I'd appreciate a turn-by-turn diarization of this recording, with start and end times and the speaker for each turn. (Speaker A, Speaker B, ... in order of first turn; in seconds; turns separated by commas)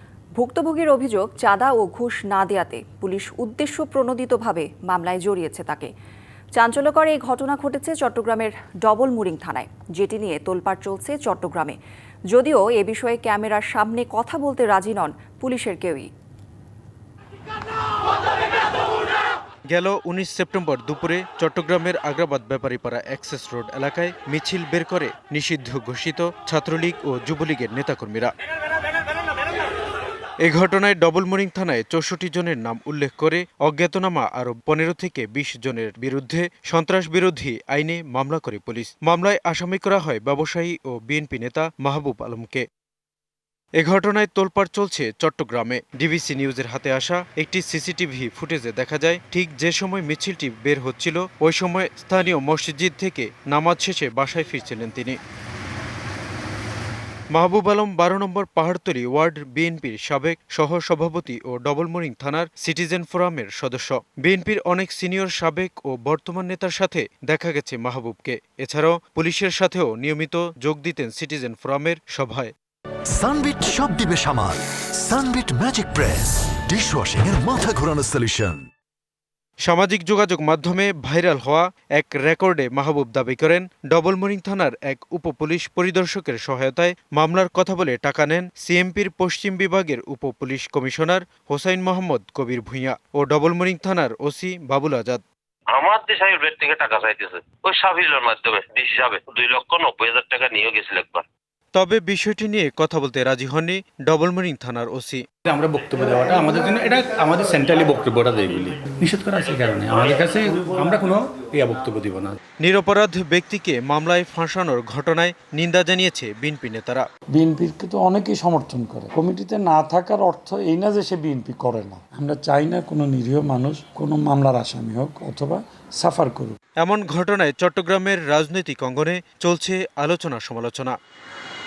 Speaker A: 0.4-5.9, Speaker A: 6.5-11.8, Speaker A: 12.3-16.1, Speaker B: 19.7-28.3, Speaker B: 30.4-42.6, Speaker B: 43.8-55.2, Speaker B: 57.3-72.5, Speaker C: 73.1-78.7, Speaker B: 79.7-95.2, Speaker D: 95.8-98.2, Speaker E: 96.0-101.0, Speaker D: 99.2-101.2, Speaker B: 101.7-105.2, Speaker E: 105.5-112.4, Speaker B: 112.6-117.0, Speaker F: 117.3-126.6, Speaker B: 126.8-131.0